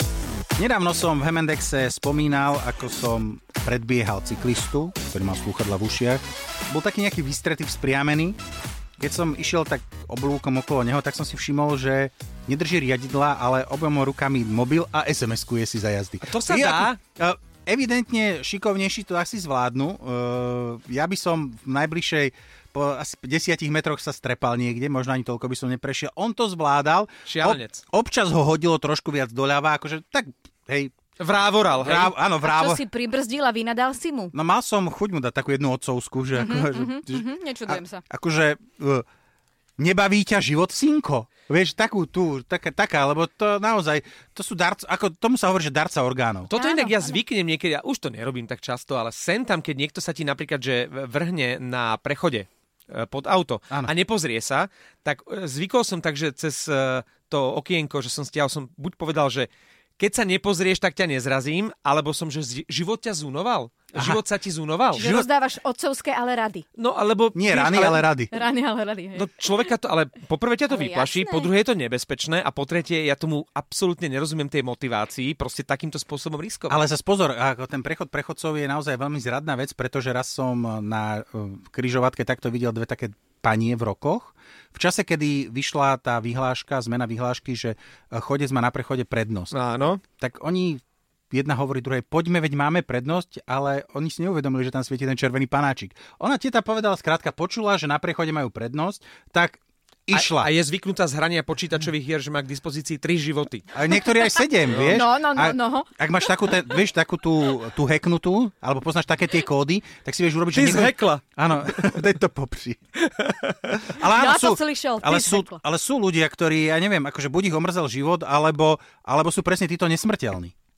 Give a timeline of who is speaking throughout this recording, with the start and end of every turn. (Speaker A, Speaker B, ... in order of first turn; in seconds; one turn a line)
Speaker A: 0.6-8.4
Speaker A: 9.0-30.9
Speaker B: 16.2-17.0
Speaker B: 27.3-27.8
Speaker B: 31.2-32.1
Speaker A: 31.8-32.8
Speaker C: 32.4-34.3
Speaker A: 34.3-39.0
Speaker C: 36.4-38.0
Speaker A: 39.8-46.5
Speaker B: 46.5-65.0
Speaker C: 46.6-47.2
Speaker A: 64.9-65.3
Speaker C: 65.0-66.7
Speaker B: 66.8-68.1
Speaker A: 67.3-68.3
Speaker C: 68.3-69.3
Speaker B: 69.1-76.8
Speaker C: 70.7-71.5
Speaker A: 76.7-89.5
Speaker B: 89.5-90.0
Speaker A: 90.2-100.5
Speaker B: 100.1-103.7
Speaker A: 103.7-112.8
Speaker B: 104.7-105.0
Speaker C: 104.9-105.9
Speaker B: 110.5-111.3
Speaker B: 113.2-113.8
Speaker A: 113.9-120.5
Speaker C: 114.0-115.6